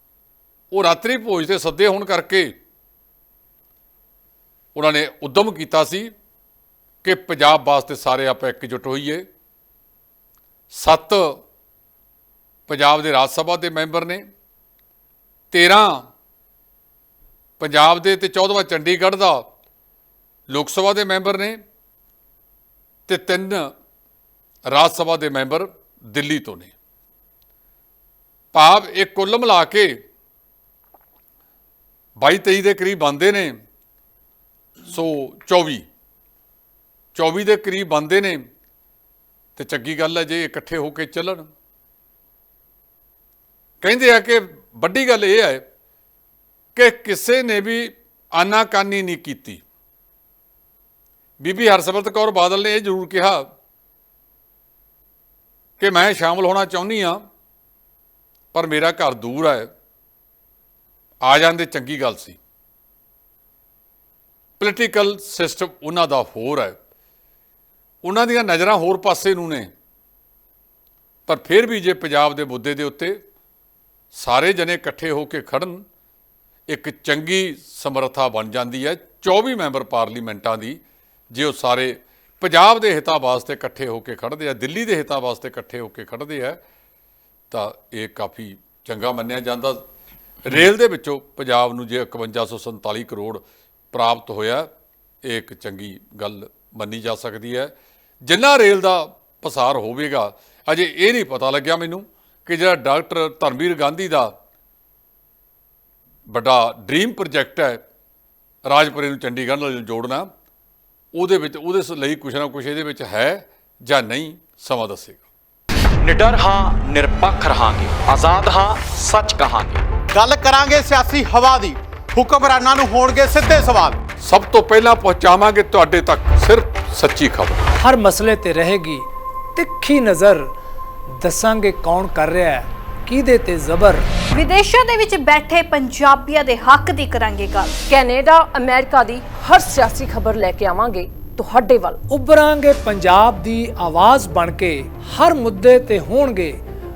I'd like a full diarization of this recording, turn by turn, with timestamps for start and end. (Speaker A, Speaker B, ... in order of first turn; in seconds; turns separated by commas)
Speaker A: 0.7-2.5, Speaker A: 4.7-6.1, Speaker A: 7.0-9.2, Speaker A: 10.7-11.4, Speaker A: 12.7-14.2, Speaker A: 15.5-16.1, Speaker A: 17.6-19.5, Speaker A: 20.5-21.6, Speaker A: 23.1-23.7, Speaker A: 24.7-26.7, Speaker A: 28.5-30.0, Speaker A: 32.2-33.6, Speaker A: 34.9-35.8, Speaker A: 37.1-38.5, Speaker A: 39.5-41.5, Speaker A: 43.8-45.6, Speaker A: 46.7-49.6, Speaker A: 51.4-53.5, Speaker A: 55.8-57.2, Speaker A: 58.5-59.7, Speaker A: 61.2-62.4, Speaker A: 64.6-66.8, Speaker A: 68.0-69.7, Speaker A: 71.3-73.2, Speaker A: 74.1-75.8, Speaker A: 76.7-80.8, Speaker A: 81.3-86.6, Speaker A: 87.5-89.8, Speaker A: 90.4-94.7, Speaker A: 95.2-97.7, Speaker A: 98.2-104.3, Speaker A: 106.3-107.8, Speaker A: 108.7-110.3, Speaker A: 111.1-115.2, Speaker B: 116.0-119.8, Speaker C: 120.1-124.0, Speaker A: 124.2-127.6, Speaker D: 127.8-130.4, Speaker D: 131.2-134.1, Speaker E: 134.3-137.8, Speaker F: 137.9-142.0, Speaker D: 142.1-146.6